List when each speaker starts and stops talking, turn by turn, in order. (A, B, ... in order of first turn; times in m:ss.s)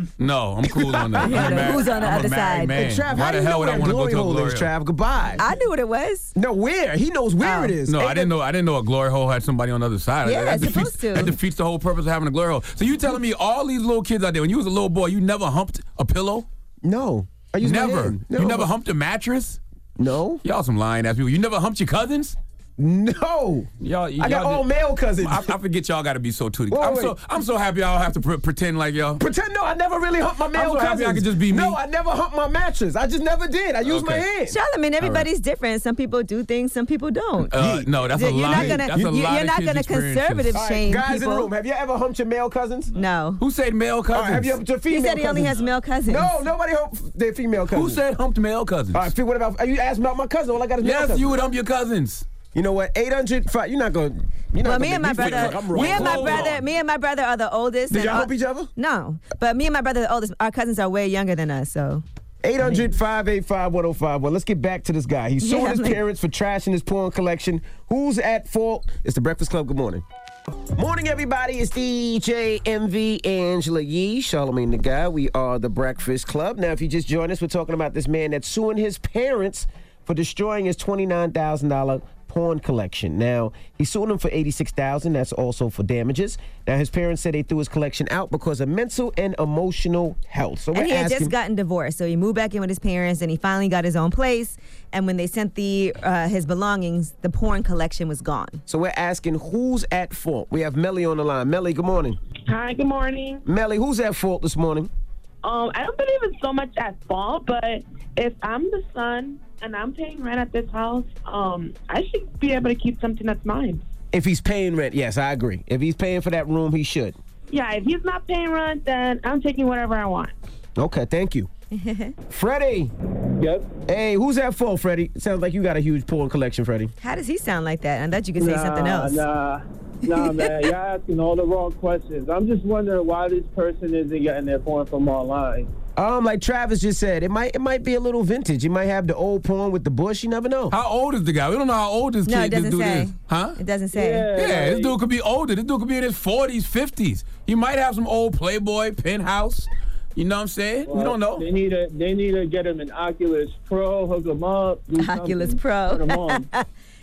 0:00.2-0:04.7 A
0:01.0-0:01.8 B
0:01.2-0:02.8 C
0:02.7-0:05.4 B
0:05.4-0:06.3 C
0:06.4-0:08.3 B
0:07.4-0:07.7 C
0:07.9-0:16.4 A
0:10.2-0:11.3 C
0:16.8-0:18.7 B
0:17.6-0:19.6 A
0:20.0-0:20.4 B
0:20.4-0:22.4 A
0:22.8-0:25.5 B
0:23.8-0:24.7 A
0:25.2-0:29.2 A
0:26.7-0:27.1 B
0:29.2-0:34.6 B
0:30.5-0:31.8 A
0:33.8-0:34.2 A
0:34.5-0:37.5 C
0:35.0-0:35.2 A
0:37.5-0:40.6 A
0:37.5-0:37.9 B
0:38.1-0:41.5 C
0:38.4-0:39.0 B
0:40.5-0:42.9 B
0:43.0-0:43.4 C
0:43.4-0:44.6 A
0:44.1-0:48.0 B
0:44.9-0:46.3 C
0:47.7-0:49.1 A
0:48.9-0:51.3 B
0:50.8-0:52.2 A
0:52.5-0:56.5 B
0:54.6-1:02.0 C
0:55.2-0:56.6 A
0:57.9-0:58.7 B
1:02.4-1:10.0 B
1:05.4-1:06.0 C
1:10.7-1:31.3 B
1:30.7-1:38.6 C
1:38.7-1:42.2 B
1:42.5-1:43.4 D
1:43.4-1:44.9 B
1:45.4-1:53.8 D
1:54.1-1:57.2 B
1:57.5-2:00.3 D
2:00.8-2:01.5 B
2:01.7-2:02.1 C
2:02.3-2:02.9 B
2:03.4-2:03.7 E
2:03.9-2:06.9 B
2:07.0-2:09.2 C
2:08.4-2:15.7 E
2:16.0-2:20.7 B
2:20.7-2:23.6 A
2:22.2-2:24.3 C
2:23.9-2:24.9 E
2:24.3-2:31.4 A
2:30.9-2:36.5 E
2:35.0-2:36.6 C